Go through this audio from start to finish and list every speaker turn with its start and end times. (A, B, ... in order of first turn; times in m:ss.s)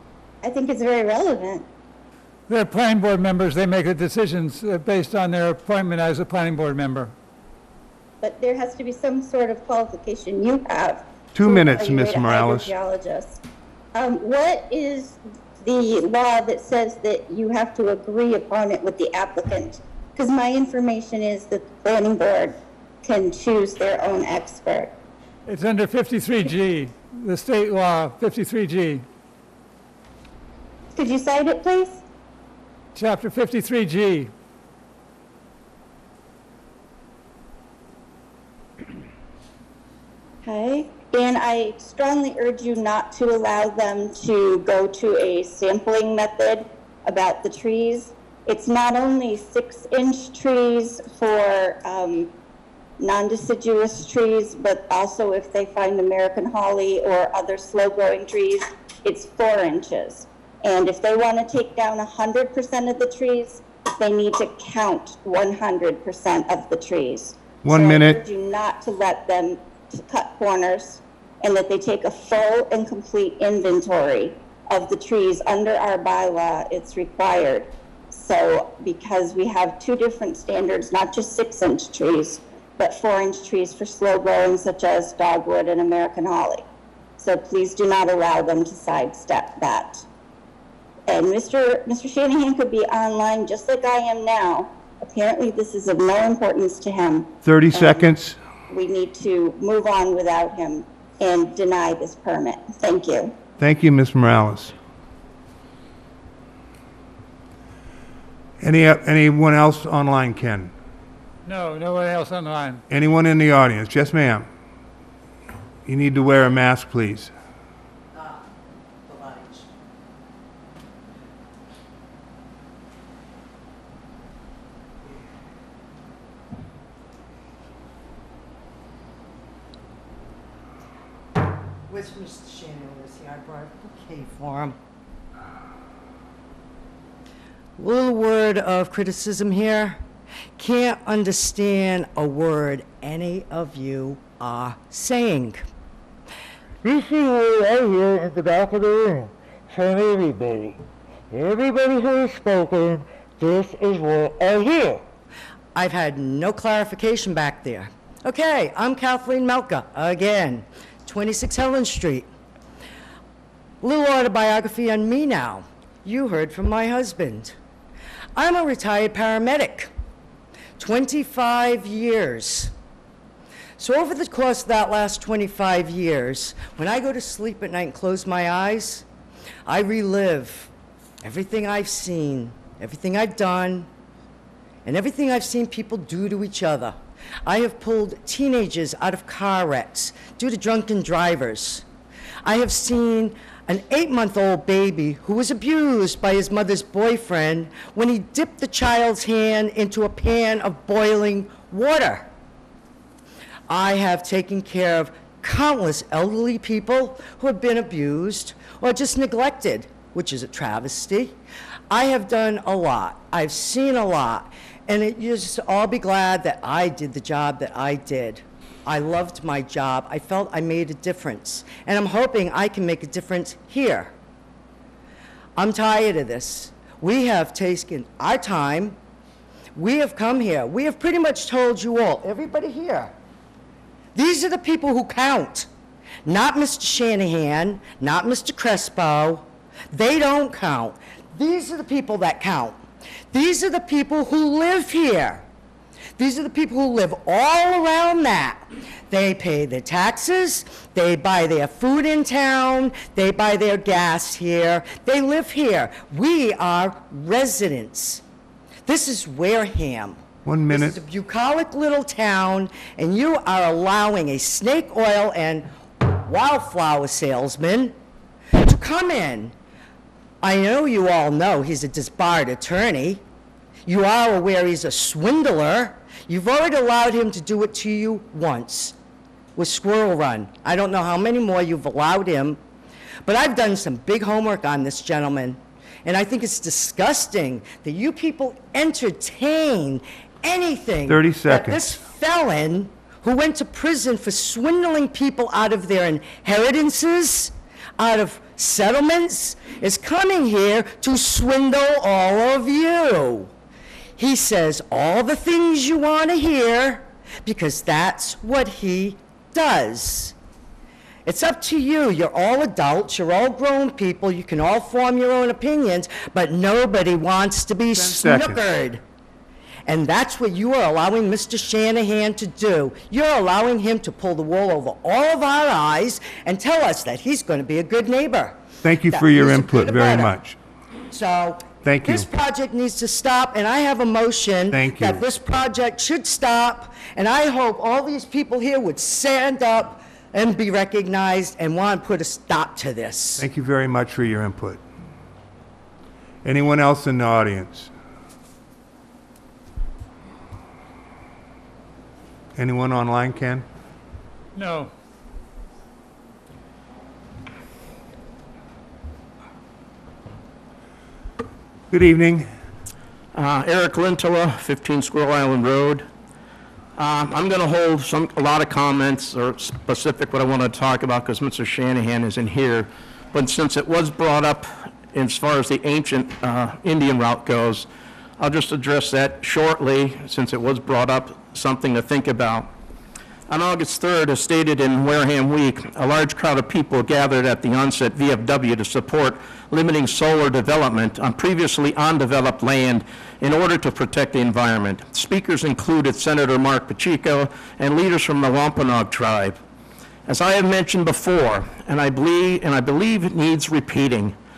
0:00.4-0:01.7 A
0:02.5-0:07.1 B
0:08.2-0:13.4 A
0:11.3-0:12.7 C
0:14.0-0:24.9 A
0:25.5-0:29.0 B
0:31.0-0:32.0 A
0:33.0-0:34.3 B
0:40.4-0:52.3 A
0:53.0-1:26.6 A
1:07.6-1:08.2 C
1:27.2-1:30.0 A
1:31.1-1:38.1 A
1:37.4-1:38.4 C
1:38.7-1:43.3 A
1:43.6-1:44.8 C
1:48.6-1:50.7 C
1:51.5-1:52.8 B
1:52.9-1:54.5 C
1:55.9-1:57.3 C
2:11.9-2:14.8 D
2:17.8-2:20.0 D
2:20.6-2:25.6 D
2:26.8-2:35.0 E
2:35.8-2:42.3 D
2:43.8-2:47.6 D
2:48.4-2:49.9 D
2:50.8-2:52.7 D
2:53.8-2:59.0 D
2:59.7-3:00.7 D
3:01.2-3:03.9 D
3:04.8-3:11.8 D
3:12.4-3:22.3 D
3:23.7-3:31.4 D
3:31.9-3:44.1 D
3:45.6-3:49.0 D
3:49.8-3:53.1 D
3:54.2-3:55.7 D
3:56.2-4:02.8 D
4:03.3-4:05.4 D
4:06.2-4:18.2 D
4:18.9-4:28.0 D
4:20.4-4:21.0 C
4:28.6-4:29.5 D
4:30.4-4:33.2 D
4:33.9-4:39.0 D
4:39.6-4:42.6 D
4:43.2-5:03.5 D
4:51.1-4:52.0 C
5:04.2-5:10.3 D
5:11.3-5:19.0 D
5:18.0-5:18.8 C
5:19.9-5:30.3 D
5:28.8-5:30.6 C
5:31.1-5:43.5 D
5:31.8-5:32.3 C
5:34.7-5:35.2 C
5:43.4-5:44.8 C
5:46.4-5:47.9 C
5:52.6-5:53.7 C
5:54.6-5:54.9 B
6:01.9-6:02.5 C
6:03.3-6:06.1 F
6:07.0-6:17.9 F
6:18.4-6:22.7 F
6:23.5-6:39.6 F
6:40.3-6:44.4 F